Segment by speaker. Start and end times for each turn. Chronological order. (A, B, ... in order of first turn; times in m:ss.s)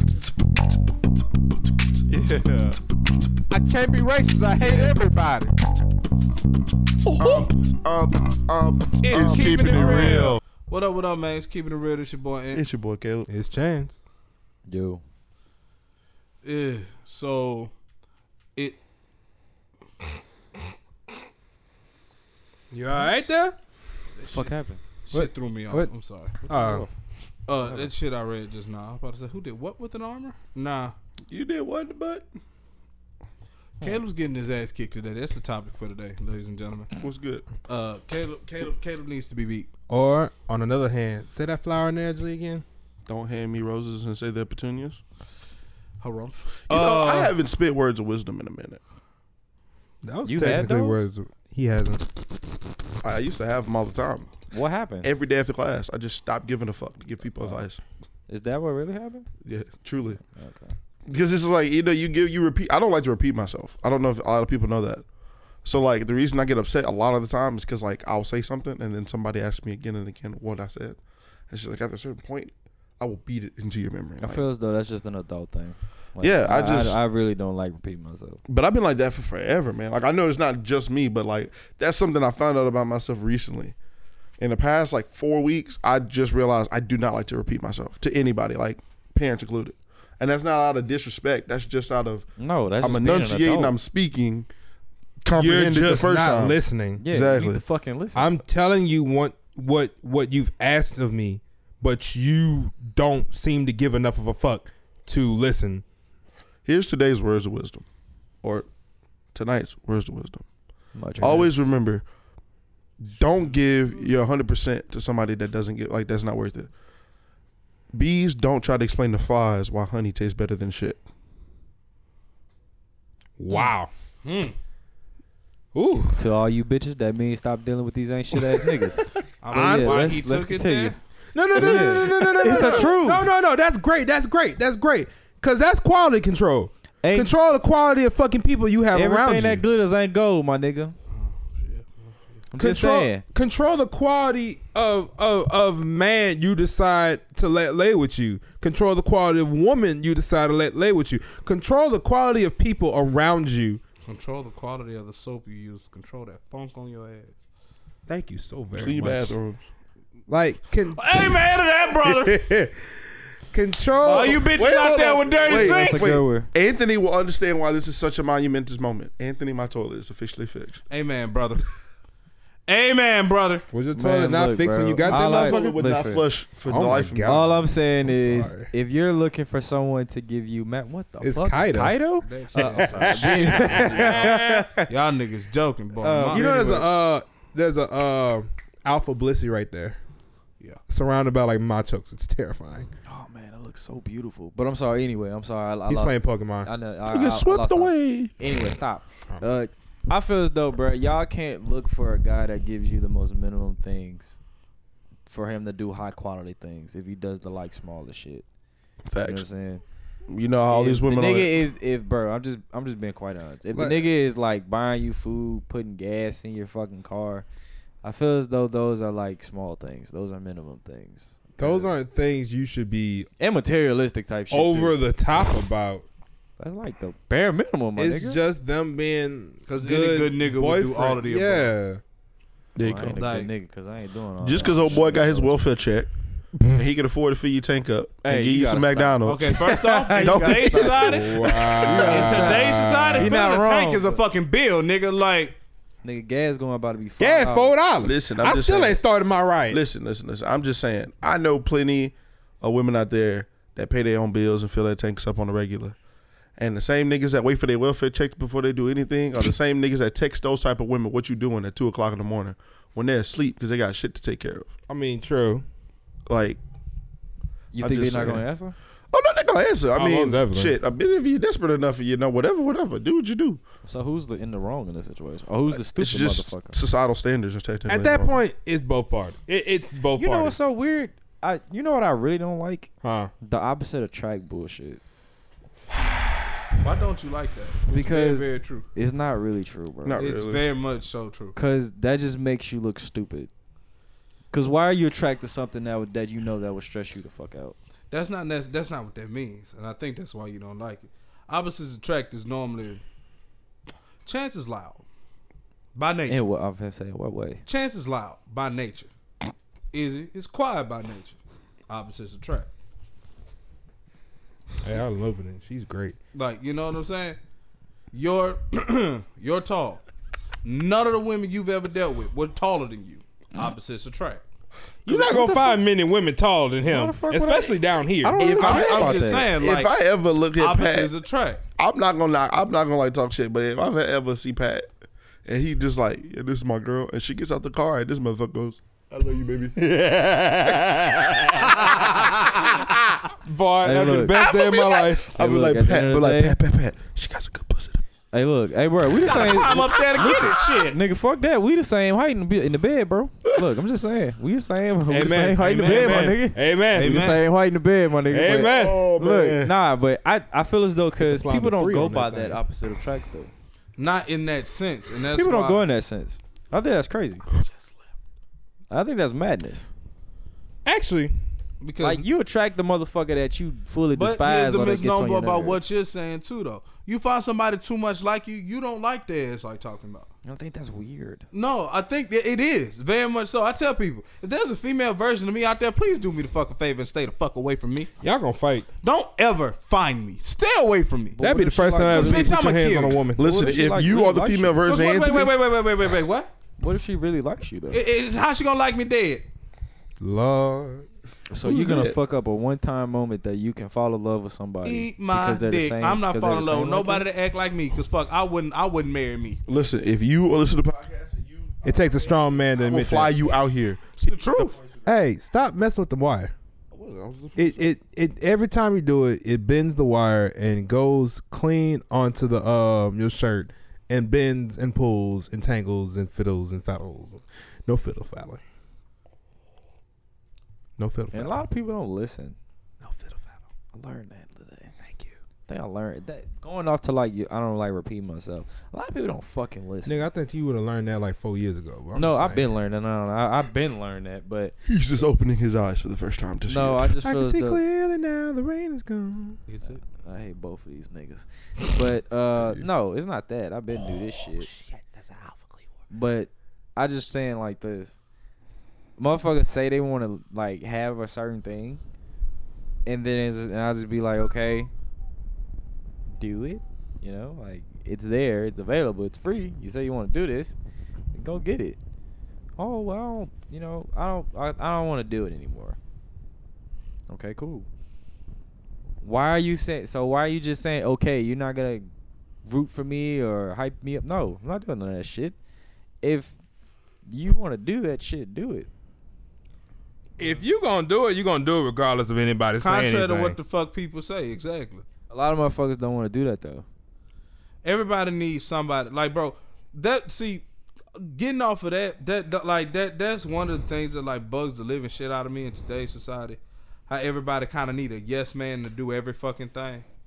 0:02.1-0:02.8 A
0:03.5-0:05.6 A
0:07.1-0:10.4 B
0:09.0-0:12.6 A
0:09.1-0:10.4 C
0:12.5-0:13.3 B
0:13.3-0:14.0 C
0:14.7-0:15.0 D
0:16.4-0:17.7 A
0:22.7-0:23.6 C
0:24.2-0:24.5 A
0:24.3-0:24.8 D
0:25.1-0:26.4 A
0:25.1-0:25.9 C
0:26.4-0:26.9 C
0:26.5-0:26.9 D
0:27.5-0:31.0 A
0:31.3-0:32.3 B
0:33.8-0:36.9 A
0:37.0-0:37.5 B
0:37.7-0:39.7 A
0:39.9-0:42.6 C
0:43.1-0:45.0 B
0:46.0-0:47.3 A
0:46.7-0:48.8 B
0:50.0-0:52.0 C
0:50.2-0:51.0 D
0:53.0-0:54.3 B
0:54.5-0:55.1 D
0:55.0-0:57.8 B
0:58.3-0:59.3 D
0:59.4-1:00.2 B
1:00.3-1:00.7 D
1:01.1-1:05.0 B
1:05.6-1:11.0 B
1:11.5-1:14.4 B
1:14.2-1:18.4 D
1:16.2-1:17.0 B
1:18.5-1:23.7 B
1:24.4-1:32.2 B
1:32.4-1:33.7 D
1:32.8-1:34.5 B
1:35.2-1:37.6 B
1:35.4-1:37.0 C
1:37.0-1:38.3 D
1:38.1-1:45.8 C
1:46.6-1:47.8 B
1:49.3-1:50.4 B
1:50.9-1:51.6 D
1:51.2-1:52.0 B
1:53.0-1:56.7 B
1:57.9-2:01.0 B
2:03.4-2:03.9 C
2:04.2-2:04.6 A
2:05.7-2:06.2 C
2:06.2-2:11.0 D
2:09.4-2:11.0 A
2:09.5-2:10.1 C
2:11.3-2:19.6 C
2:11.6-2:13.2 D
2:11.6-2:12.7 B
2:17.0-2:17.3 D
2:18.9-2:21.0 D
2:21.1-2:21.9 A
2:22.5-2:23.2 D
2:22.6-2:33.8 C
2:34.1-2:37.3 A
2:38.1-2:39.4 C
2:38.8-2:39.6 B
2:40.3-2:41.5 C
2:40.9-2:42.4 A
2:42.0-2:42.9 C
2:43.5-2:44.5 C
2:44.0-2:46.1 A
2:44.1-2:50.8 B
2:45.5-2:46.5 D
2:50.9-2:51.6 A
2:52.7-2:53.6 A
2:53.7-2:55.6 C
2:53.9-2:56.2 D
2:55.0-2:57.4 B
2:56.7-2:58.7 C
2:57.2-3:04.9 D
3:01.2-3:02.0 C
3:02.2-3:06.9 A
3:02.5-3:04.3 C
3:06.0-3:10.0 C
3:10.9-3:12.9 C
3:13.1-3:24.4 D
3:15.9-3:16.7 C
3:17.1-3:18.3 B
3:25.3-3:28.4 D
3:29.1-3:29.4 B
3:29.2-3:29.8 D
3:30.3-3:31.6 B
3:30.7-3:37.4 D
3:33.7-3:34.0 C
3:38.0-3:41.9 D
3:41.6-3:43.3 C
3:43.4-3:45.0 D
3:44.5-3:46.0 C
3:46.6-3:48.4 D
3:48.0-3:52.0 C
3:49.7-3:51.7 A
3:52.8-3:53.2 B
3:52.8-3:55.6 D
3:53.2-3:53.5 A
3:54.4-4:02.6 B
3:58.2-4:04.2 D
3:59.2-4:05.6 A
4:01.0-4:03.3 C
4:06.0-4:07.7 D
4:07.2-4:09.8 C
4:08.0-4:09.0 B
4:09.7-4:15.9 B
4:16.6-4:24.7 B
4:24.9-4:25.6 C
4:26.3-4:26.6 B
4:27.7-4:28.8 D
4:27.8-4:28.4 B
4:29.1-4:33.6 B
4:29.9-4:30.8 C
4:33.8-4:36.8 D
4:35.7-4:38.4 B
4:37.9-4:40.7 C
4:40.2-4:45.0 D
4:43.0-4:43.3 C
4:46.8-4:48.9 A
4:47.9-4:50.3 D
4:50.0-4:50.6 B
4:50.2-4:51.6 A
4:51.6-4:53.5 D
4:54.5-4:57.8 D
4:58.1-5:03.0 A
5:04.2-5:05.0 A
5:05.9-5:06.4 A
5:06.3-5:07.6 D
5:07.7-5:09.1 A
5:09.9-5:11.4 A
5:11.9-5:12.7 A
5:14.8-5:16.2 C
5:16.3-5:17.4 A
5:18.1-5:20.0 A
5:20.6-5:24.4 A
5:25.0-5:28.4 C
5:25.1-5:25.8 D
5:26.9-5:29.5 D
5:28.4-5:31.1 B
5:28.4-5:29.9 A
5:30.6-5:31.6 A
5:31.8-5:34.9 B
5:35.4-5:40.0 B
5:39.8-5:41.8 C
5:41.4-5:42.7 B
5:41.8-5:42.4 A
5:43.4-5:45.3 C
5:43.8-5:44.4 D
5:44.3-5:48.0 B
5:45.4-5:46.6 D
5:48.3-6:03.5 D
5:49.1-5:51.0 A
5:50.2-5:50.8 B
5:55.1-5:57.3 C
5:55.8-5:56.3 A
5:56.9-5:57.4 A
5:58.3-5:59.0 C
5:58.7-5:59.7 B
6:01.2-6:02.6 C
6:04.0-6:05.8 A
6:05.3-6:07.4 D
6:08.9-6:09.9 D
6:10.8-6:11.4 C
6:11.8-6:12.2 A
6:12.0-6:15.8 D
6:14.2-6:20.3 A
6:20.4-6:21.4 D
6:21.5-6:28.1 A
6:28.2-6:28.9 C
6:29.0-6:31.4 A
6:31.3-6:32.6 D
6:31.4-6:33.7 C
6:32.1-6:33.2 A
6:33.4-6:35.5 B
6:33.4-6:34.8 D
6:34.9-6:36.5 A
6:36.8-6:38.0 D
6:37.9-6:39.4 A
6:40.2-6:41.1 C
6:41.5-6:47.2 D
6:41.6-6:42.2 B
6:44.8-6:49.6 A
6:49.7-6:54.9 B
6:51.8-6:53.3 C
6:54.2-6:54.8 A
6:55.0-6:56.5 C
6:56.9-6:57.9 B
6:57.6-7:08.6 C
7:11.0-7:11.6 C
7:11.3-7:12.6 D
7:13.0-7:13.6 C
7:13.9-7:14.9 D
7:15.0-7:15.3 C
7:15.7-7:20.2 D
7:20.0-7:22.7 C
7:22.1-7:24.7 D
7:24.9-7:27.1 B
7:26.7-7:27.8 D
7:27.2-7:29.6 C
7:29.7-7:30.0 A
7:30.1-7:34.7 D
7:34.7-7:35.7 C
7:36.1-7:38.2 D
7:39.2-7:42.0 D
7:43.1-7:44.9 D
7:46.4-7:50.7 D
7:51.3-7:52.0 D
7:52.8-7:56.0 D
7:57.3-7:57.9 D
7:59.2-8:02.1 D
8:02.7-8:05.6 D
8:06.2-8:06.6 D
8:07.3-8:08.9 D
8:10.4-8:13.6 C
8:12.8-8:15.0 A
8:15.3-8:16.8 D
8:17.8-8:20.6 A
8:21.2-8:30.0 A